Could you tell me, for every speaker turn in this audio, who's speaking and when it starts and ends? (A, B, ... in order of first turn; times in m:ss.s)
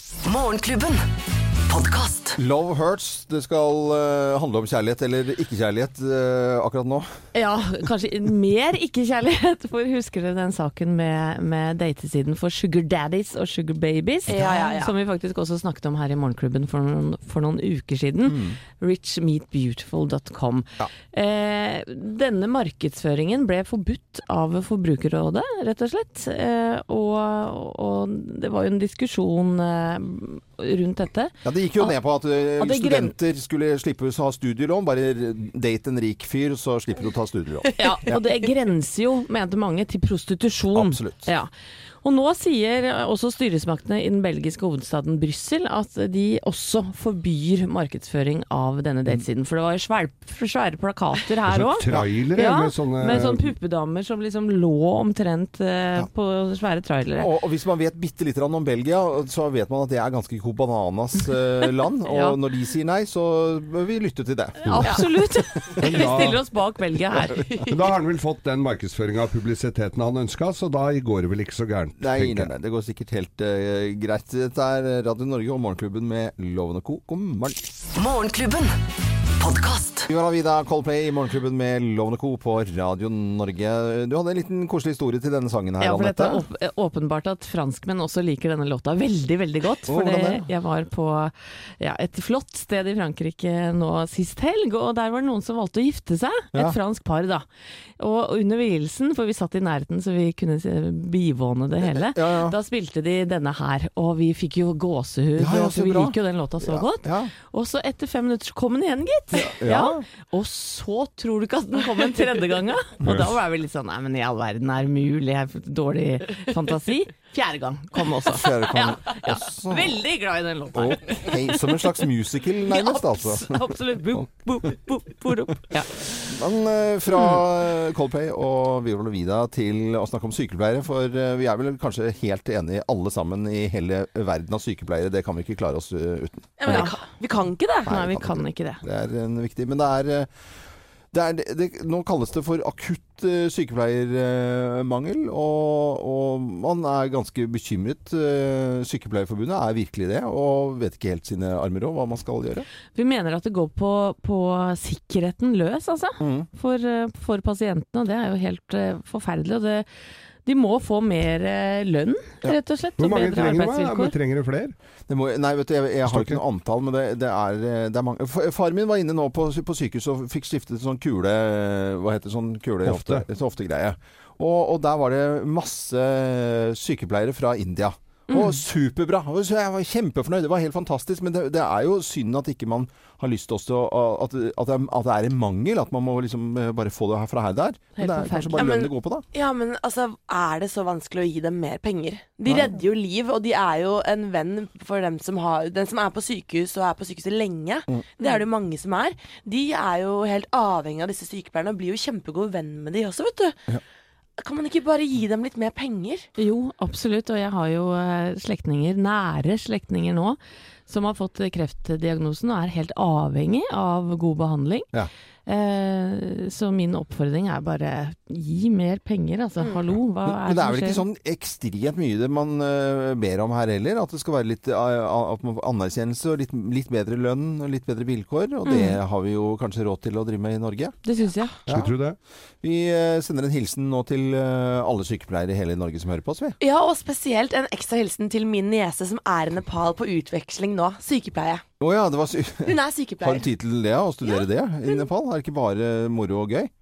0:00.2-0:01.0 A
0:01.7-0:02.4 A
0:02.4-0:07.1 B
0:07.3-0:32.0 C
0:14.3-0:14.9 D
0:18.3-0:18.6 B
0:31.4-0:38.2 B
0:32.6-0:33.1 C
0:37.8-0:41.5 C
0:40.7-0:41.3 B
0:42.0-0:57.3 C
0:51.5-0:53.5 E
0:57.2-1:05.9 B
1:02.1-1:02.4 C
1:04.6-1:04.9 E
1:04.8-1:07.7 C
1:05.8-1:06.4 E
1:07.7-1:12.5 E
1:12.0-1:17.6 B
1:18.0-1:18.7 A
1:19.4-1:20.1 A
1:20.1-1:26.4 B
1:25.8-1:37.4 C
1:29.9-1:30.5 B
1:38.0-2:01.9 C
1:41.8-1:42.6 B
1:45.4-1:47.3 B
1:49.3-1:50.0 B
1:58.2-2:00.0 B
2:00.7-2:03.6 B
2:02.7-2:05.9 C
2:06.0-2:16.9 B
2:07.1-2:07.4 C
2:16.6-2:17.9 D
2:16.7-2:17.0 C
2:17.8-2:18.8 C
2:17.9-2:20.3 B
2:21.1-2:32.7 B
2:33.0-2:39.9 C
2:36.2-2:36.5 B
2:40.4-2:44.1 C
2:43.0-2:44.8 E
2:45.1-3:09.2 B
2:46.1-2:46.4 E
2:52.8-2:53.2 E
2:58.3-2:58.6 C
3:08.0-3:08.7 C
3:08.6-3:23.6 D
3:12.5-3:12.8 B
3:24.4-3:26.3 D
3:26.4-3:34.9 C
3:35.5-3:41.0 C
3:40.3-3:50.9 B
3:48.7-3:49.0 C
3:51.0-3:51.6 C
3:51.7-3:51.9 B
3:51.7-3:52.2 E
3:52.6-3:56.6 B
3:56.6-4:01.6 D
4:01.8-4:06.7 B
4:02.6-4:03.5 D